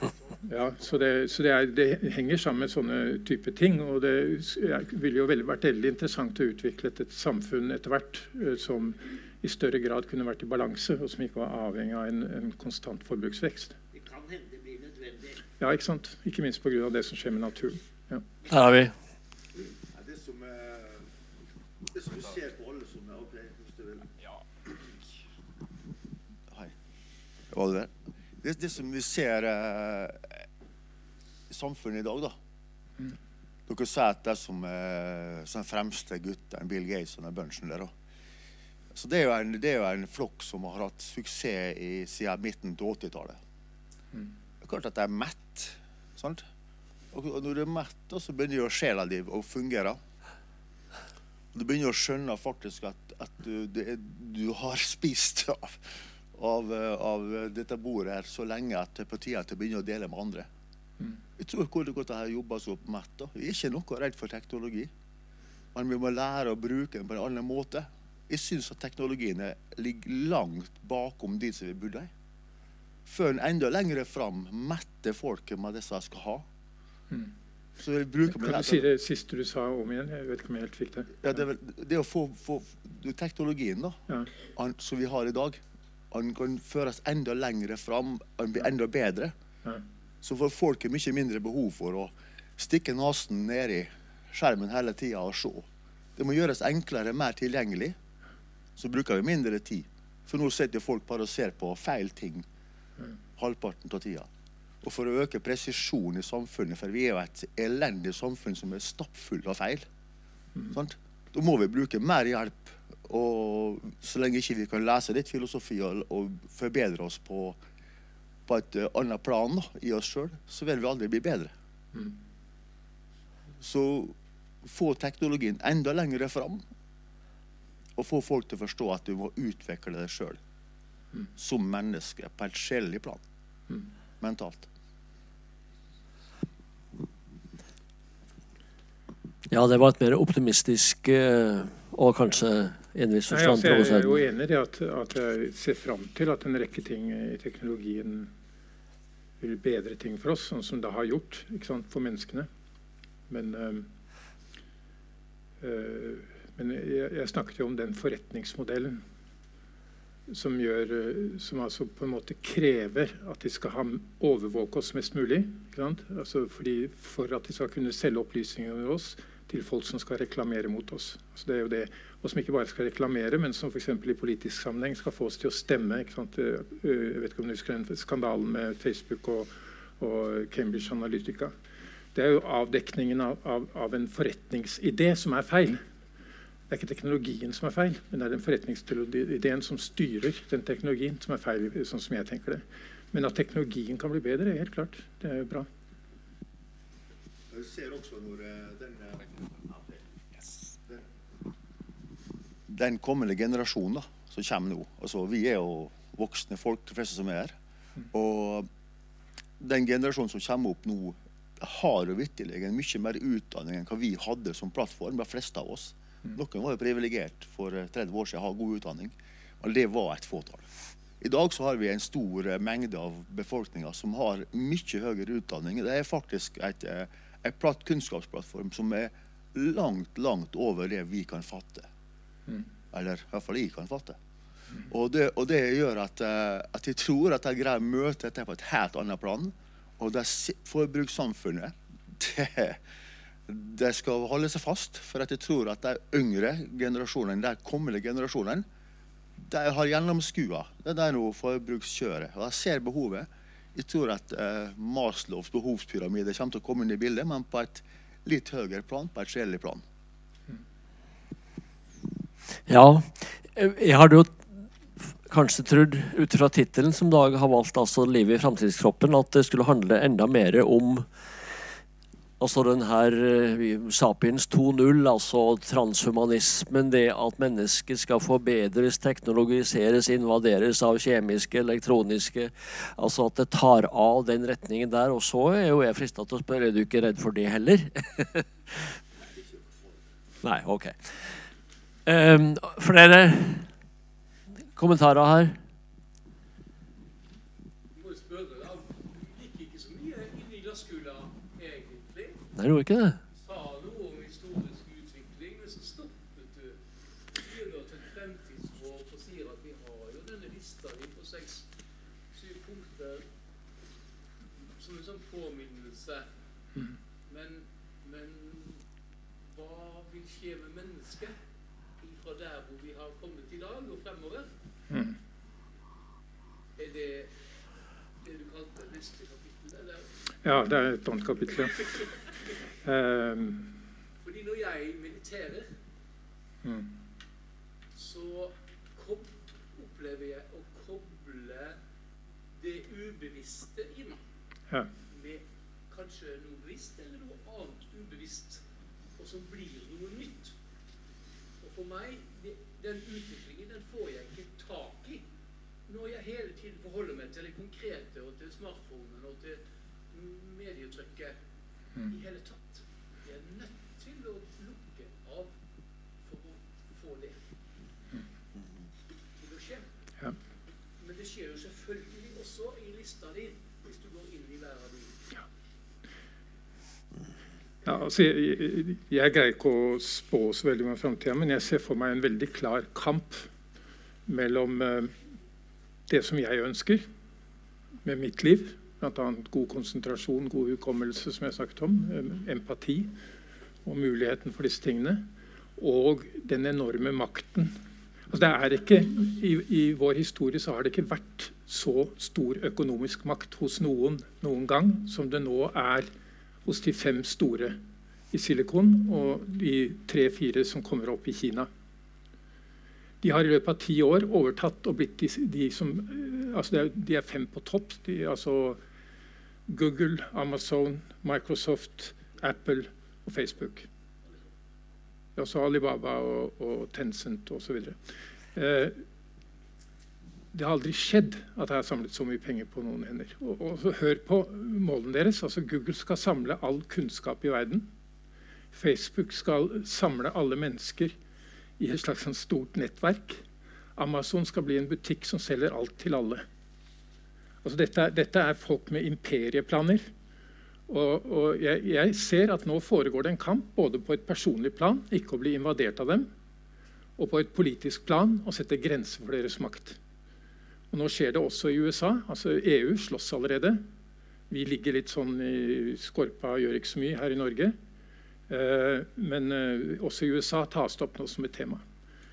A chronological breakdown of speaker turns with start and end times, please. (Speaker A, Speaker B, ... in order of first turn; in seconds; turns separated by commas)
Speaker A: 0.3-1.2, Speaker B: 0.5-13.8, Speaker A: 13.9-15.4, Speaker B: 15.6-18.2, Speaker C: 18.5-18.9, Speaker D: 19.9-21.1, Speaker D: 21.9-24.1, Speaker D: 27.5-30.3, Speaker D: 31.5-32.4, Speaker D: 33.7-37.9, Speaker D: 39.0-43.4, Speaker D: 44.6-46.4, Speaker D: 47.1-50.0, Speaker D: 51.5-60.5, Speaker D: 61.4-64.9, Speaker D: 65.7-72.1, Speaker D: 73.1-76.5, Speaker D: 77.8-78.9, Speaker B: 78.3-81.4, Speaker D: 81.2-84.0, Speaker D: 84.5-85.6, Speaker D: 86.1-89.3, Speaker D: 90.2-98.0, Speaker D: 98.8-102.5, Speaker D: 103.4-104.3, Speaker D: 104.8-109.9, Speaker D: 110.7-117.6, Speaker D: 118.5-121.5, Speaker D: 123.6-126.6, Speaker D: 128.0-130.4, Speaker D: 131.4-133.2, Speaker D: 134.2-134.7, Speaker C: 139.5-144.2, Speaker B: 143.3-148.3, Speaker B: 149.4-152.5, Speaker B: 153.3-153.9, Speaker B: 155.6-159.0, Speaker B: 160.3-181.5, Speaker B: 182.1-185.8, Speaker B: 186.7-195.7, Speaker D: 197.5-200.0, Speaker D: 202.7-207.6, Speaker D: 208.1-208.7, Speaker D: 209.6-220.7, Speaker D: 221.2-231.9, Speaker D: 232.9-234.2, Speaker D: 234.9-242.8, Speaker D: 243.5-248.7, Speaker D: 249.4-259.8, Speaker C: 262.7-264.4, Speaker C: 265.3-271.1, Speaker C: 272.4-288.5, Speaker D: 289.3-290.1, Speaker C: 290.4-291.4, Speaker C: 292.1-293.7, Speaker C: 294.8-295.6, Speaker E: 297.9-302.4, Speaker C: 302.6-303.2, Speaker E: 303.3-306.8, Speaker E: 307.4-311.7, Speaker E: 312.3-313.2, Speaker E: 314.6-316.3, Speaker E: 317.3-318.8, Speaker E: 319.4-321.4, Speaker E: 322.0-324.5, Speaker B: 324.9-325.2, Speaker E: 326.8-327.3, Speaker E: 328.2-330.1, Speaker B: 330.4-331.8, Speaker E: 331.6-332.2, Speaker B: 332.8-333.7, Speaker E: 334.2-335.7, Speaker B: 336.6-336.9, Speaker E: 337.9-341.8, Speaker E: 342.6-344.2, Speaker E: 345.1-348.6, Speaker E: 349.2-350.5, Speaker E: 351.6-355.2, Speaker E: 355.9-361.4, Speaker E: 362.1-365.5, Speaker E: 366.2-367.4, Speaker E: 369.4-369.9, Speaker E: 371.0-375.2, Speaker B: 377.9-383.5, Speaker B: 384.3-385.1, Speaker B: 386.1-387.1, Speaker B: 388.0-393.1, Speaker B: 393.9-397.8, Speaker B: 398.3-406.1, Speaker B: 406.6-407.8, Speaker B: 408.3-411.7, Speaker B: 413.2-418.8, Speaker B: 419.7-423.9, Speaker B: 425.4-428.0, Speaker B: 428.6-429.0, Speaker B: 430.5-437.9, Speaker B: 438.7-441.1, Speaker B: 441.8-443.4, Speaker B: 444.0-446.4, Speaker B: 447.6-450.1, Speaker B: 450.9-456.3, Speaker B: 457.2-460.0, Speaker B: 460.9-463.8, Speaker B: 464.5-467.8, Speaker B: 468.5-471.8